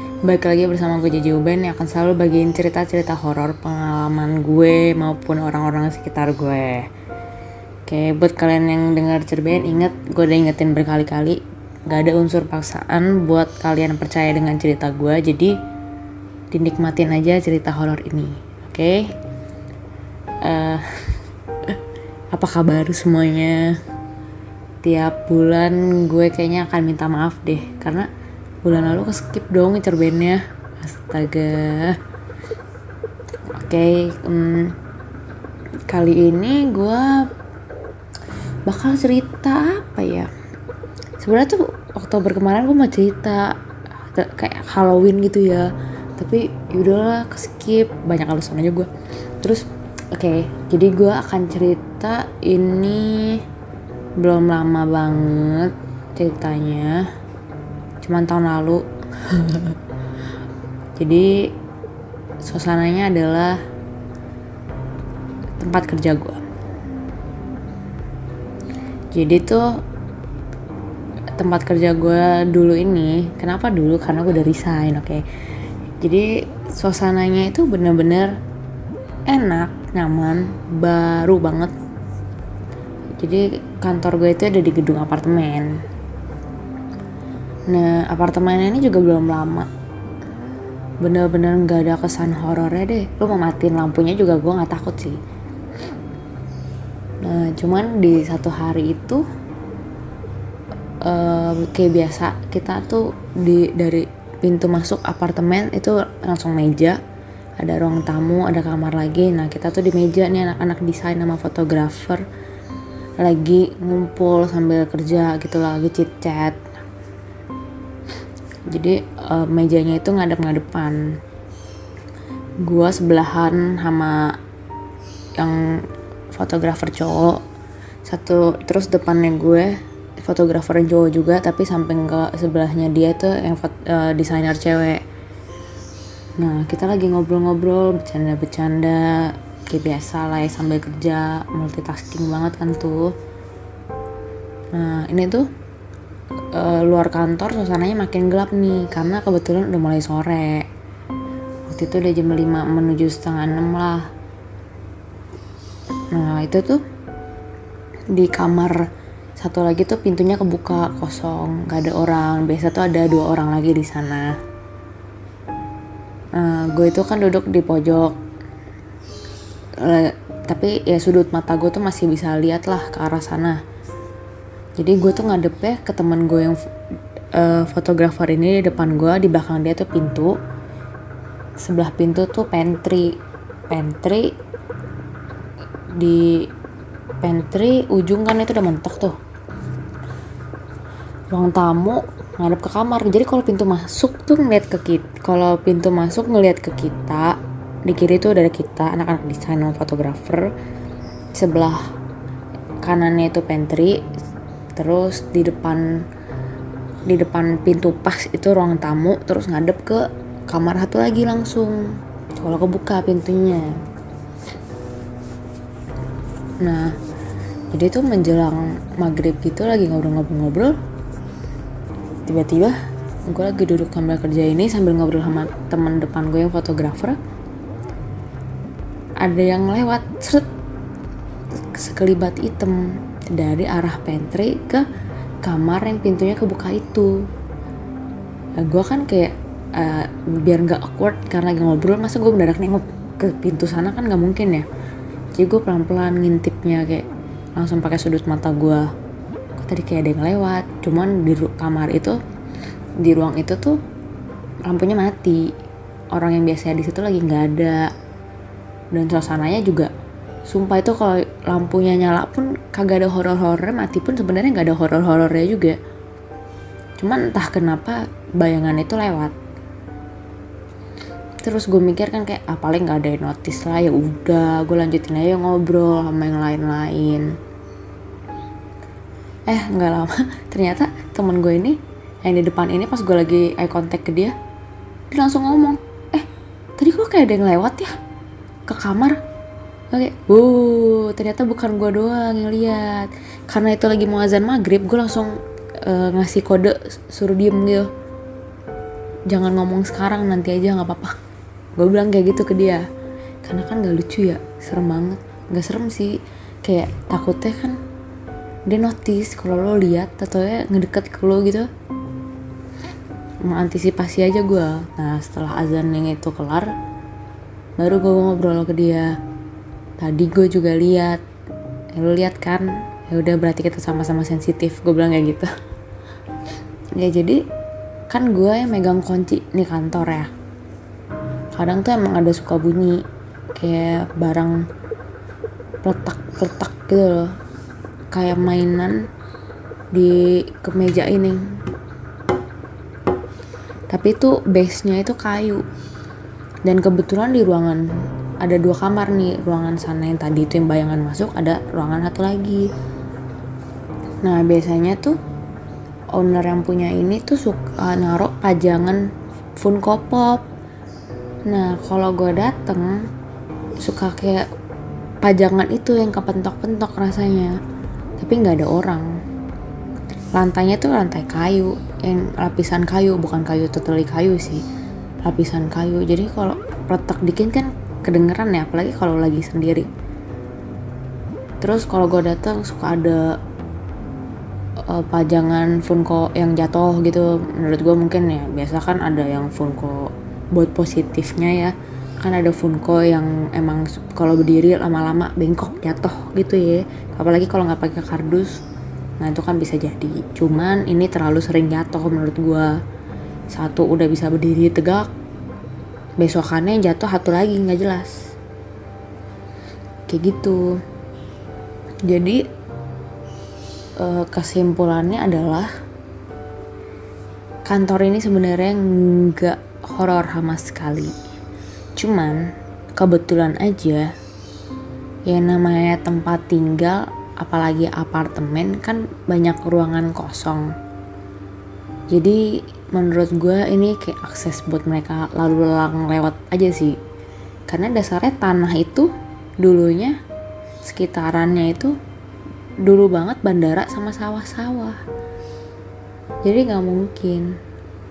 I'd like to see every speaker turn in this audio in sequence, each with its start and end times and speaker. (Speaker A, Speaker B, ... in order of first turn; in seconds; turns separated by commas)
Speaker A: 0.2-6.9, Speaker A: 7.9-15.5, Speaker A: 16.5-19.1, Speaker A: 20.4-21.0, Speaker A: 22.3-23.7, Speaker A: 24.8-28.1, Speaker A: 28.6-32.0, Speaker A: 33.5-34.7, Speaker A: 35.9-37.2, Speaker A: 38.7-40.3, Speaker A: 41.2-43.5, Speaker A: 44.1-48.9, Speaker A: 49.4-53.4, Speaker A: 54.2-57.0, Speaker A: 58.0-59.8, Speaker A: 61.0-61.3, Speaker A: 62.4-63.6, Speaker A: 65.6-66.4, Speaker A: 69.1-69.7, Speaker A: 71.3-75.2, Speaker A: 76.0-78.3, Speaker A: 79.3-81.7, Speaker A: 83.2-85.7, Speaker A: 87.7-89.7, Speaker A: 91.0-95.2, Speaker A: 97.2-99.2, Speaker A: 101.0-107.0, Speaker A: 107.6-112.2, Speaker A: 113.2-116.6, Speaker A: 118.7-121.0, Speaker A: 122.6-124.3, Speaker A: 125.4-127.4, Speaker A: 128.0-135.0, Speaker A: 136.4-143.1, Speaker A: 144.7-145.5, Speaker A: 146.5-150.7, Speaker A: 151.7-154.1, Speaker A: 156.1-156.8, Speaker A: 158.1-158.8, Speaker A: 159.4-164.4, Speaker A: 166.3-168.2, Speaker A: 169.8-173.6, Speaker A: 174.8-176.6, Speaker A: 177.3-180.4, Speaker A: 181.6-183.2, Speaker A: 183.7-184.3, Speaker A: 185.9-186.4, Speaker A: 187.2-189.2, Speaker A: 191.3-200.5, Speaker A: 201.3-201.8, Speaker A: 202.8-204.0, Speaker A: 204.8-206.0, Speaker A: 207.1-211.8, Speaker A: 212.4-213.8, Speaker A: 216.6-216.9, Speaker A: 217.7-220.8, Speaker A: 222.2-227.2, Speaker A: 229.2-230.5, Speaker A: 231.7-234.8, Speaker A: 235.4-237.2, Speaker A: 238.6-244.7, Speaker A: 245.3-247.0, Speaker A: 247.6-248.8, Speaker A: 249.6-252.2, Speaker A: 253.0-253.8, Speaker A: 254.7-255.4, Speaker A: 256.1-257.9, Speaker A: 258.9-259.9, Speaker A: 260.5-265.8, Speaker A: 267.0-269.3, Speaker A: 271.4-277.3, Speaker A: 279.5-284.3, Speaker A: 285.1-286.3, Speaker A: 286.8-287.9, Speaker A: 288.7-289.2, Speaker A: 289.9-297.9, Speaker A: 299.3-301.1, Speaker A: 301.8-302.8, Speaker A: 303.4-307.8, Speaker A: 308.7-311.7, Speaker A: 313.4-316.7, Speaker A: 317.8-319.1, Speaker A: 320.0-321.2, Speaker A: 321.9-325.5, Speaker A: 327.0-327.4, Speaker A: 328.1-330.3, Speaker A: 331.5-333.0, Speaker A: 333.5-334.6, Speaker A: 335.8-337.3, Speaker A: 338.1-339.0, Speaker A: 339.9-341.4, Speaker A: 343.9-345.6, Speaker A: 346.6-347.8, Speaker A: 348.4-352.7, Speaker A: 354.2-355.1, Speaker A: 356.1-359.0, Speaker A: 359.6-360.4, Speaker A: 361.5-363.0, Speaker A: 363.8-364.4, Speaker A: 365.2-367.6, Speaker A: 368.2-369.1, Speaker A: 370.3-374.6, Speaker A: 375.2-379.9, Speaker A: 381.6-383.4, Speaker A: 384.9-398.6, Speaker A: 399.2-402.7, Speaker A: 403.5-405.1, Speaker A: 406.2-408.1, Speaker A: 410.1-410.6, Speaker A: 412.1-412.4, Speaker A: 414.0-415.7, Speaker A: 417.6-421.1, Speaker A: 421.9-422.4, Speaker A: 422.9-424.1, Speaker A: 425.3-430.7, Speaker A: 432.1-432.4, Speaker A: 432.9-436.9, Speaker A: 437.7-439.1, Speaker A: 439.6-440.2, Speaker A: 440.8-441.9, Speaker A: 442.8-445.0, Speaker A: 446.4-447.5